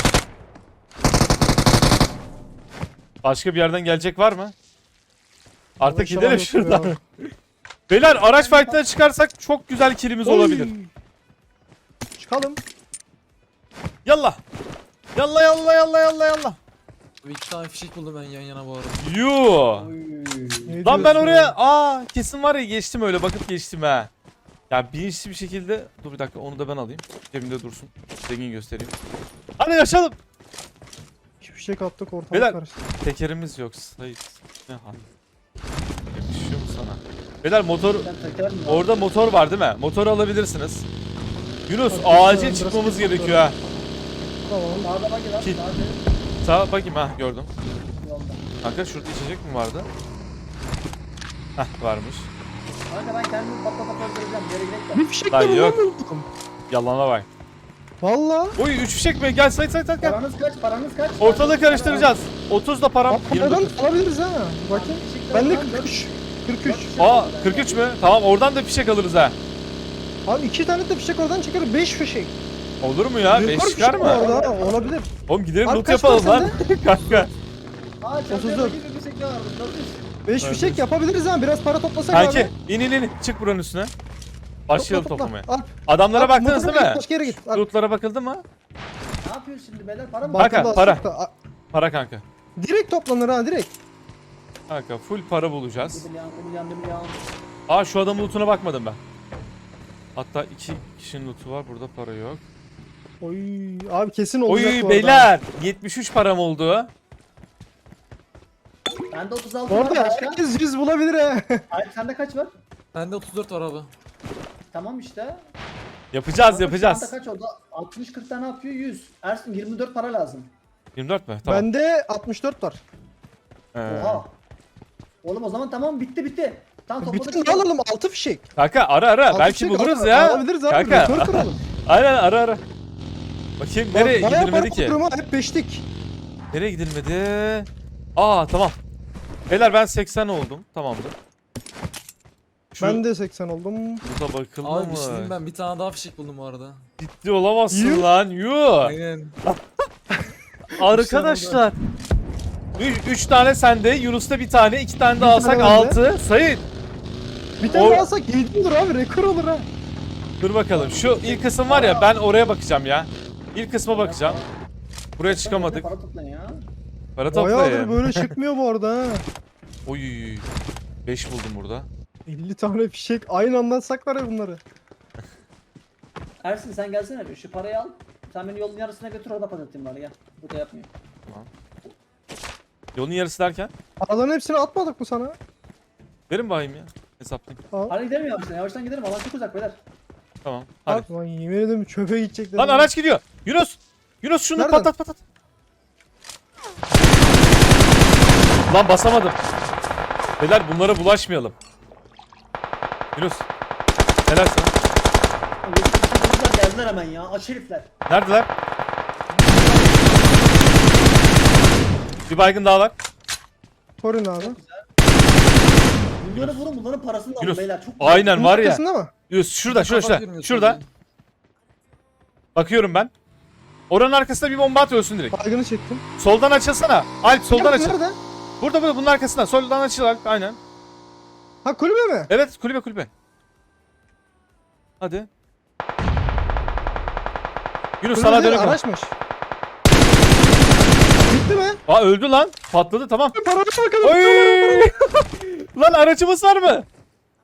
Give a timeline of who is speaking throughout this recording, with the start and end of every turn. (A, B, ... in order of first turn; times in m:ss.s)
0:03.2-0:04.5 A
0:05.8-0:07.0 A
0:05.8-0:07.0 B
0:07.9-0:10.7 A
0:08.1-0:08.8 C
0:10.2-0:10.9 B
0:12.2-0:12.6 B
0:14.0-0:14.4 A
0:15.2-0:16.6 A
0:17.2-0:19.0 D
0:19.0-0:19.9 A
0:19.7-0:21.1 C
0:20.7-0:21.5 B
0:20.8-0:24.1 A
0:24.7-0:28.9 A
0:29.6-0:30.2 A
0:31.4-0:32.8 B
0:32.3-0:35.1 A
0:36.1-0:38.1 A
0:37.8-0:39.2 C
0:38.7-0:40.8 A
0:41.7-0:43.6 A
0:41.9-0:43.5 B
0:44.4-0:44.9 B
0:44.8-0:46.0 C
0:46.4-0:47.5 A
0:48.0-0:48.5 C
0:48.6-0:49.9 A
0:51.6-0:52.3 A
0:52.9-0:55.0 C
0:54.9-0:56.3 B
0:55.3-0:55.8 A
0:56.7-0:57.3 A
0:58.0-0:58.6 B
0:58.6-1:00.2 A
1:00.0-1:02.1 C
1:01.2-1:03.7 A
1:03.1-1:06.9 B
1:04.7-1:07.8 C
1:07.0-1:09.3 A
1:10.2-1:12.3 B
1:12.8-1:14.2 A
1:13.2-1:15.1 B
1:13.9-1:14.9 C
1:15.3-1:17.3 A
1:15.6-1:16.5 B
1:18.0-1:20.1 C
1:18.3-1:18.8 B
1:20.2-1:22.5 B
1:20.4-1:20.8 A
1:22.1-1:23.9 A
1:24.7-1:28.4 A
1:24.7-1:27.6 B
1:29.2-1:30.8 C
1:30.2-1:31.3 B
1:30.4-1:31.0 A
1:31.7-1:32.2 A
1:32.6-1:33.7 B
1:34.7-1:36.1 A
1:35.9-1:37.2 C
1:37.7-1:39.0 A
1:40.1-1:42.4 A
1:43.2-1:45.3 B
1:44.5-1:46.9 A
1:49.1-1:50.4 C
1:49.7-1:51.6 B
1:51.7-1:52.5 C
1:52.9-1:53.9 D
1:54.7-1:55.4 C
1:56.1-1:57.1 A
1:56.5-2:00.5 C
2:01.0-2:01.7 A
2:01.4-2:02.8 B
2:03.7-2:04.2 A
2:03.9-2:04.3 C
2:05.2-2:07.7 C
2:07.0-2:08.4 B
2:08.6-2:12.6 A
2:09.3-2:11.6 B
2:13.6-2:15.0 A
2:13.9-2:15.8 B
2:16.5-2:18.8 A
2:19.5-2:21.1 A
2:22.7-2:23.0 A
2:22.8-2:24.0 B
2:24.0-2:25.4 A
2:24.6-2:26.9 D
2:27.0-2:28.9 A
2:27.7-2:28.1 B
2:28.8-2:29.4 D
2:30.7-2:31.8 A
2:30.8-2:31.6 D
2:32.8-2:36.6 A
2:35.2-2:36.0 B
2:37.6-2:38.0 C
2:37.6-2:39.7 B
2:37.7-2:38.1 A
2:40.4-2:44.4 A
2:40.7-2:42.1 C
2:43.9-2:44.5 C
2:45.2-2:45.9 A
2:45.2-2:46.6 C
2:47.2-2:48.3 A
2:47.3-2:49.2 B
2:49.8-2:50.5 A
2:51.0-2:51.9 A
2:52.2-2:54.6 B
2:56.4-3:00.9 C
3:02.9-3:03.7 A
3:04.0-3:05.4 B
3:06.3-3:07.6 A
3:07.9-3:09.8 C
3:10.4-3:11.1 A
3:10.9-3:12.9 B
3:12.6-3:15.2 A
3:14.6-3:14.9 B
3:18.7-3:19.5 A
3:20.4-3:21.6 A
3:23.2-3:23.4 A
3:24.3-3:24.7 A
3:25.6-3:27.9 C
3:28.1-3:28.5 A
3:32.3-3:32.9 A
3:34.0-3:34.6 B
3:34.4-3:34.9 C
3:36.2-3:38.4 C
3:36.3-3:36.6 A
3:37.4-3:40.8 A
3:38.3-3:39.1 B
3:39.7-3:40.8 D
3:42.5-3:43.1 A
3:43.9-3:45.4 A
3:45.3-3:46.0 B
3:46.2-3:48.0 A
3:47.5-3:48.2 B
3:48.6-3:50.6 A
3:51.6-3:52.3 B
3:52.3-3:53.1 A
3:55.0-3:55.3 A
3:58.0-3:58.8 A
3:58.1-3:59.1 B
4:01.2-4:01.8 B
4:01.9-4:03.4 A
4:03.4-4:04.9 B
4:04.0-4:06.9 A